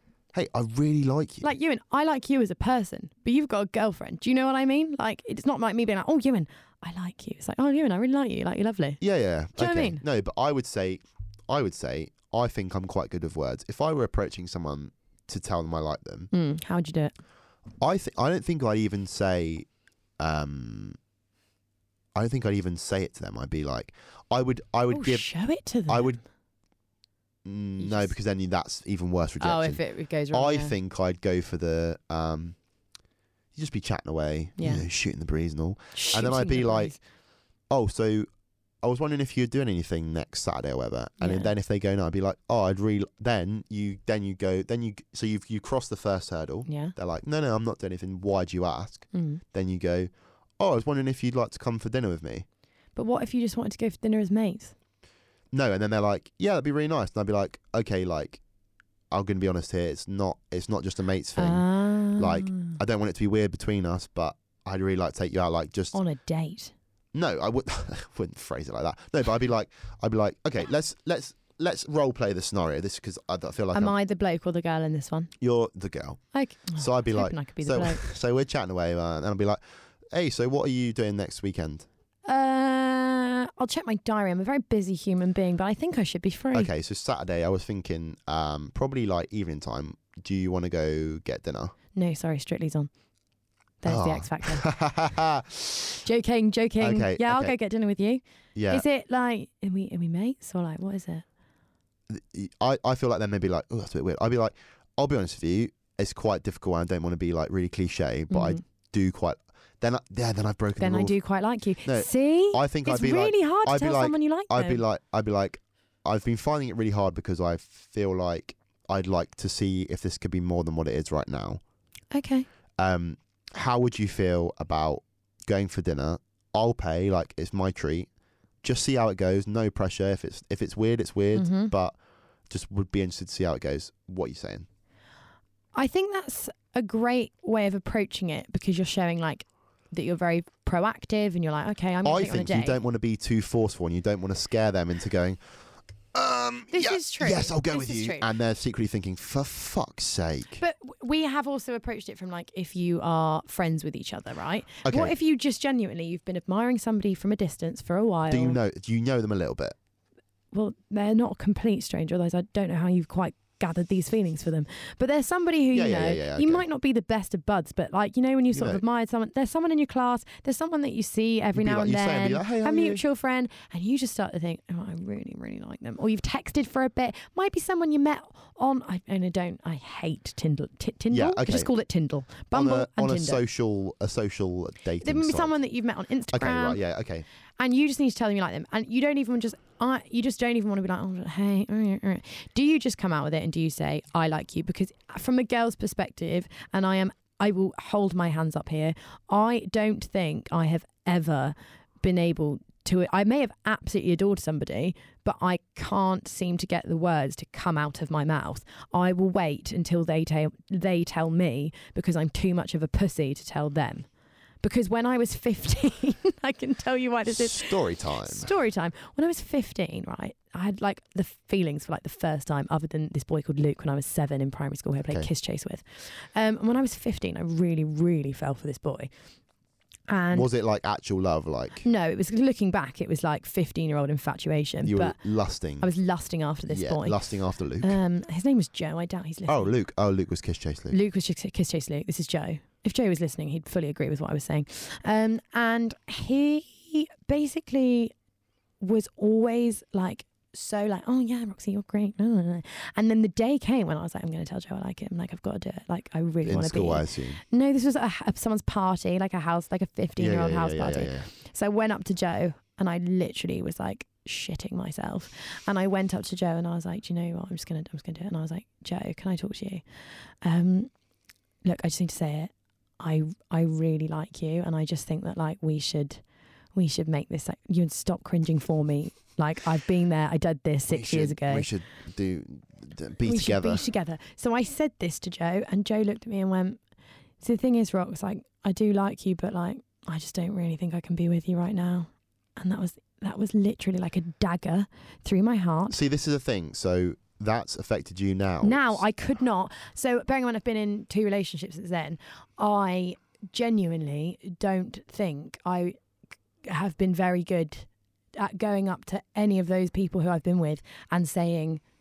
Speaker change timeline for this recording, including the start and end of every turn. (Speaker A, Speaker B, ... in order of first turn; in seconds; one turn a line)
Speaker A: 0.3-1.5
Speaker B: 1.4-9.0
Speaker A: 9.0-16.3
Speaker B: 9.6-10.0
Speaker B: 16.3-17.1
Speaker A: 17.8-19.7
Speaker A: 20.2-21.0
Speaker A: 22.1-25.2
Speaker B: 24.9-26.2
Speaker A: 25.9-26.2
Speaker A: 27.4-29.8
Speaker B: 27.8-28.1
Speaker B: 29.4-30.7
Speaker A: 30.3-32.5
Speaker A: 33.5-37.0
Speaker B: 34.6-34.8
Speaker B: 35.9-37.0
Speaker A: 37.7-38.3
Speaker A: 38.8-52.4
Speaker B: 41.2-41.5
Speaker B: 46.6-46.9
Speaker B: 49.1-49.4
Speaker B: 53.0-54.7
Speaker A: 55.5-58.4
Speaker A: 59.1-66.0
Speaker B: 61.4-62.8
Speaker B: 65.9-66.7
Speaker A: 67.1-73.9
Speaker B: 73.7-75.3
Speaker A: 75.4-76.2
Speaker B: 76.3-78.0
Speaker A: 76.8-79.6
Speaker A: 80.1-81.9
Speaker B: 82.3-86.7
Speaker A: 86.5-91.7
Speaker B: 91.9-92.9
Speaker B: 93.8-94.7
Speaker A: 93.8-96.0
Speaker B: 96.0-101.2
Speaker A: 96.8-97.5
Speaker A: 98.5-98.8
Speaker A: 102.1-111.1
Speaker B: 108.3-108.6
Speaker B: 110.8-114.8
Speaker A: 111.8-121.6
Speaker B: 122.1-122.5
Speaker A: 122.8-128.1
Speaker A: 128.6-131.9
Speaker B: 131.3-131.7
Speaker A: 132.5-134.7
Speaker B: 135.8-142.8
Speaker A: 142.0-145.4
Speaker A: 146.1-150.6
Speaker B: 146.7-148.3
Speaker B: 150.6-158.6
Speaker A: 154.8-155.1
Speaker A: 158.3-159.8
Speaker B: 160.5-183.4
Speaker A: 165.7-166.6
Speaker A: 168.5-168.8
Speaker A: 171.5-173.0
Speaker A: 181.1-181.7
Speaker A: 182.5-185.6
Speaker B: 185.0-186.8
Speaker A: 186.3-187.2
Speaker B: 187.6-214.1
Speaker B: 214.6-229.1
Speaker A: 217.3-218.5
Speaker B: 230.1-230.5
Speaker A: 230.3-231.9
Speaker B: 231.8-235.2
Speaker A: 234.8-235.9
Speaker B: 235.8-237.2
Speaker A: 236.7-238.0
Speaker B: 237.8-239.7
Speaker A: 239.5-241.0
Speaker B: 240.9-248.1
Speaker B: 248.8-269.8
Speaker A: 256.4-257.4
Speaker A: 260.2-261.3
Speaker B: 270.4-270.9
Speaker B: 271.6-276.2
Speaker B: 276.8-281.7
Speaker A: 280.9-283.8
Speaker B: 283.2-286.8
Speaker B: 287.4-296.0
Speaker A: 295.9-299.0
Speaker B: 298.6-305.9
Speaker B: 306.6-311.8